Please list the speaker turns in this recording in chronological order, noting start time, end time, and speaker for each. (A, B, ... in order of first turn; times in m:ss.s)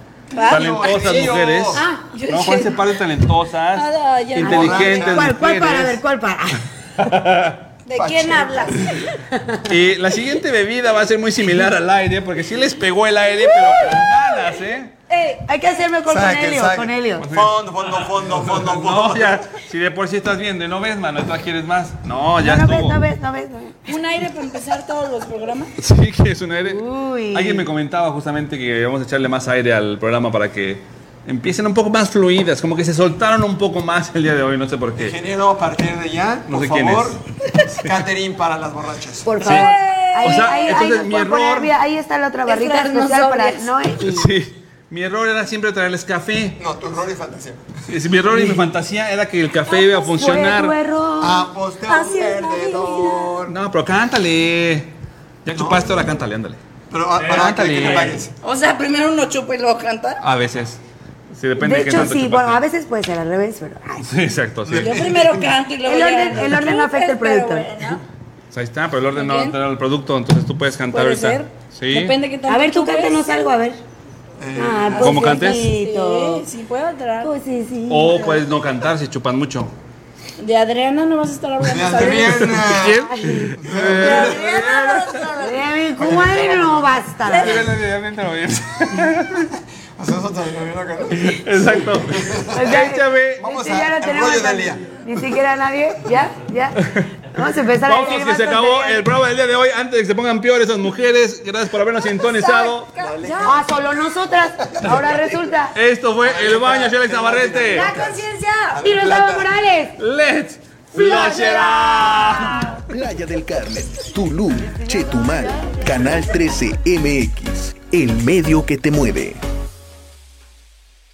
0:00.3-0:00.9 A
0:00.4-0:01.8 B
0:00.5-0:06.0 C
0:01.8-0:02.8 A
0:03.8-0:05.1 A
0:04.4-0:05.3 B
0:04.9-0:07.0 D
0:07.1-0:07.6 C
0:07.9-0:08.9 A
0:07.9-0:08.8 B
0:09.6-0:14.9 C
0:13.5-0:14.0 A
0:15.1-0:15.4 A
0:15.4-0:17.3 D
0:16.1-0:19.4 B
0:17.2-0:23.0 C
0:22.4-0:23.9 D
0:23.9-0:25.7 A
0:25.8-0:35.2 C
0:26.6-0:27.7 D
0:34.9-0:37.2 B
0:36.5-0:37.2 C
0:37.8-0:39.6 B
0:39.2-0:44.3 D
0:39.5-0:40.8 A
0:40.2-0:41.7 C
0:42.4-0:43.7 A
0:44.0-0:46.6 C
0:46.6-0:47.6 B
0:47.9-0:50.8 C
0:49.7-0:51.5 D
0:51.2-0:53.6 B
0:51.9-0:53.4 A
0:53.5-0:54.9 C
0:55.4-0:56.6 C
0:55.5-0:55.9 B
0:56.9-0:58.3 B
0:57.2-0:58.2 C
0:58.4-1:00.2 A
1:00.2-1:00.8 C
1:01.3-1:02.6 C
1:01.6-1:04.1 D
1:04.0-1:05.1 C
1:04.6-1:05.5 B
1:04.8-1:08.0 A
1:05.8-1:07.7 D
1:08.5-1:12.2 C
1:09.1-1:09.6 A
1:10.9-1:13.3 A
1:12.5-1:13.8 D
1:14.4-1:15.0 B
1:14.6-1:16.4 D
1:14.9-1:17.3 A
1:15.0-1:15.6 C
1:17.2-1:18.5 D
1:17.9-1:19.7 C
1:20.4-1:22.6 A
1:21.6-1:23.0 B
1:22.4-1:25.1 C
1:22.8-1:23.6 D
1:23.6-1:25.0 B
1:23.8-1:25.8 A
1:25.4-1:27.6 D
1:26.0-1:26.9 B
1:27.3-1:27.6 A
1:27.4-1:29.5 C
1:30.0-1:31.3 B
1:31.1-1:33.4 C
1:32.1-1:32.6 B
1:32.5-1:39.0 D
1:33.4-1:34.9 B
1:37.8-1:42.9 C
1:42.0-1:43.6 A
1:43.0-1:43.7 B
1:43.4-1:45.7 D
1:44.6-1:45.4 B
1:45.7-1:48.0 C
1:46.2-1:48.2 B
1:47.7-1:48.8 A
1:48.8-1:49.5 B
1:48.8-1:50.0 D
1:50.0-1:52.7 C
1:50.9-1:52.8 A
1:52.9-1:59.4 E
1:54.7-1:55.5 D